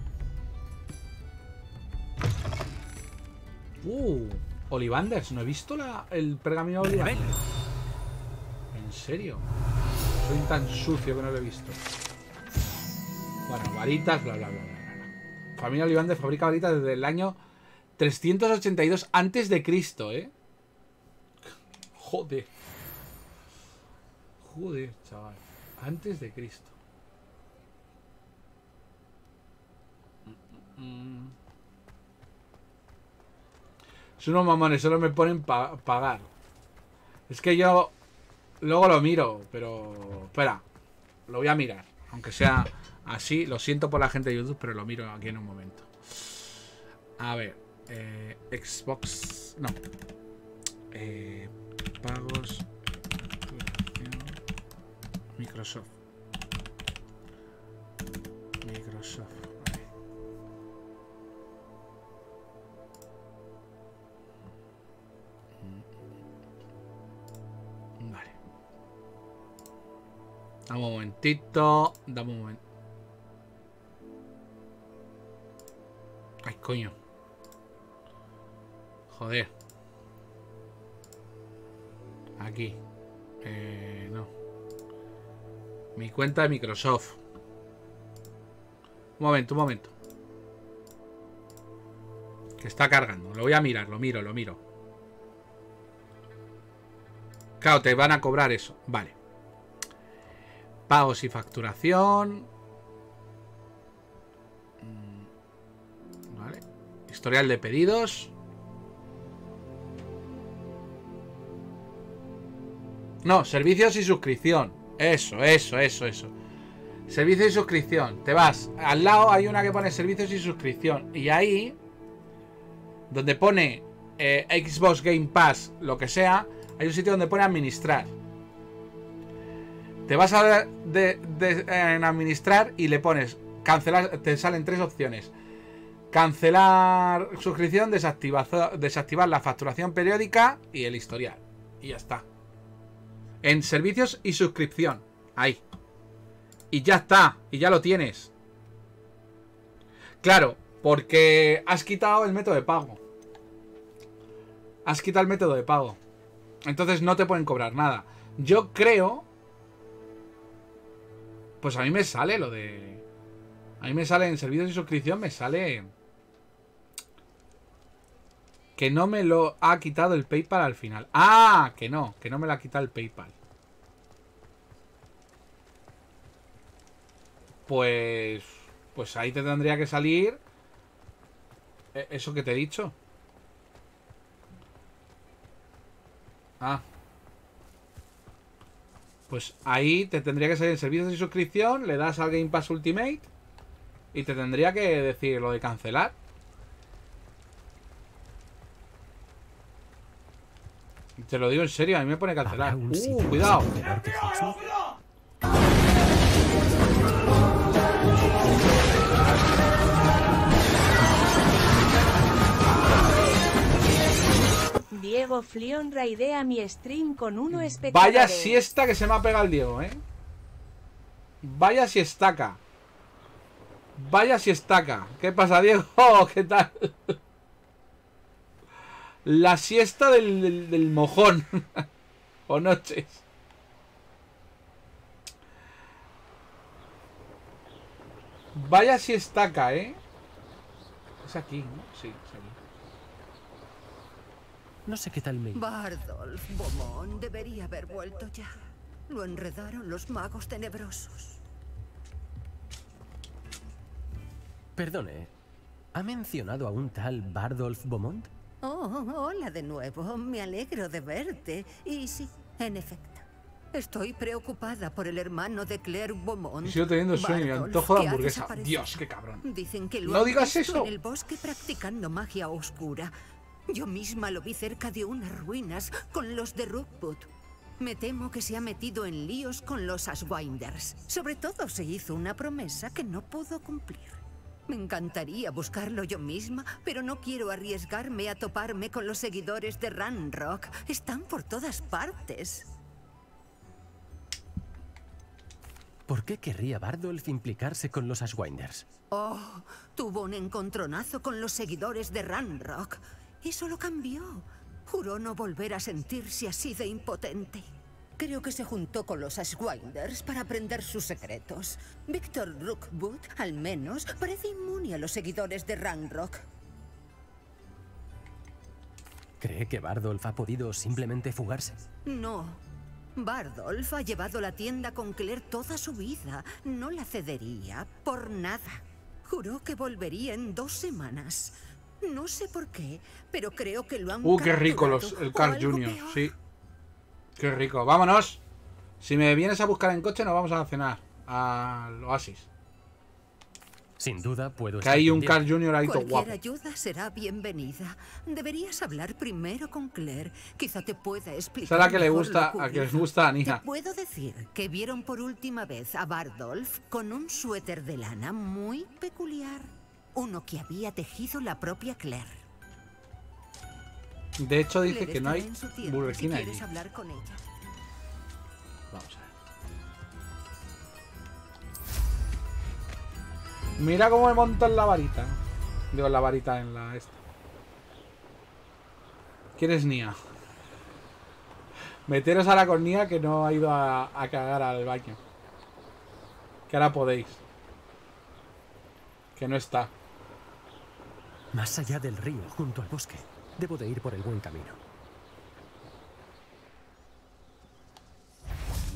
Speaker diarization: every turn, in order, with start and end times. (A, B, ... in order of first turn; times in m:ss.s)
0:03.8-0:07.4 A
0:06.8-0:07.4 B
0:08.7-0:09.5 A
0:10.2-0:11.8 A
0:13.5-0:17.4 A
0:18.0-0:20.3 A
0:22.0-0:22.5 A
0:24.4-0:26.7 A
0:30.3-0:31.3 A
0:34.2-0:36.3 A
0:37.3-0:37.9 A
0:38.6-0:40.6 A
0:41.3-0:46.5 A
0:47.2-0:49.8 A
0:50.9-0:52.7 A
0:53.5-0:54.4 A
0:55.4-0:55.9 A
0:58.6-0:59.8 A
1:08.0-1:08.4 A
1:10.7-1:12.6 A
1:16.4-1:16.9 A
1:19.1-1:19.5 A
1:22.4-1:22.8 A
1:23.4-1:24.3 A
1:26.0-1:27.2 A
1:29.2-1:29.9 A
1:32.6-1:34.6 A
1:37.6-1:39.2 A
1:40.9-1:42.5 A
1:44.8-1:45.3 A
1:46.3-1:48.3 A
1:53.2-1:56.3 A
1:57.1-2:01.8 A
2:03.1-2:08.1 A
2:10.1-2:15.3 A
2:16.1-2:22.3 A
2:23.4-2:25.6 A
2:26.7-2:28.3 A
2:30.2-2:33.0 A
2:34.8-2:36.0 A
2:36.6-2:39.3 A
2:41.6-2:43.0 A
2:43.8-2:45.9 A
2:48.8-2:53.4 A
2:57.7-3:00.4 A
3:01.9-3:02.9 A
3:09.3-3:13.3 A
3:14.1-3:16.1 A
3:21.2-3:23.7 A
3:22.4-3:24.7 B
3:34.9-3:38.6 C
3:37.5-3:40.0 A
3:41.4-3:42.6 A
3:44.0-3:47.2 A
3:49.2-3:51.9 A
3:52.5-3:53.2 A
3:58.6-4:00.0 A
4:01.2-4:02.6 A
4:04.9-4:05.7 B
4:05.6-4:08.5 D
4:09.1-4:11.4 D
4:14.8-4:15.3 B
4:16.0-4:18.3 B
4:18.6-4:33.1 D
4:26.6-4:29.4 A
4:30.0-4:30.9 A
4:33.7-4:37.3 D
4:37.8-4:52.7 D
4:56.1-4:58.9 B
4:59.1-5:07.7 D
5:08.2-5:16.4 D
5:19.4-5:21.8 B
5:22.0-5:22.6 D
5:23.2-5:36.3 D
5:34.2-5:36.4 A
5:37.4-5:38.4 A
5:39.0-5:42.5 A
5:44.0-5:45.6 B
5:44.8-5:46.4 A
5:45.8-6:02.4 D
5:51.7-5:53.6 A
6:04.4-6:06.7 A
6:04.8-6:07.4 D
6:08.9-6:09.3 A
6:13.8-6:15.4 A
6:15.9-6:17.2 A
6:19.6-6:20.2 A
6:22.1-6:25.2 A
6:26.7-6:27.4 A
6:29.4-6:29.9 A
6:31.5-6:34.8 B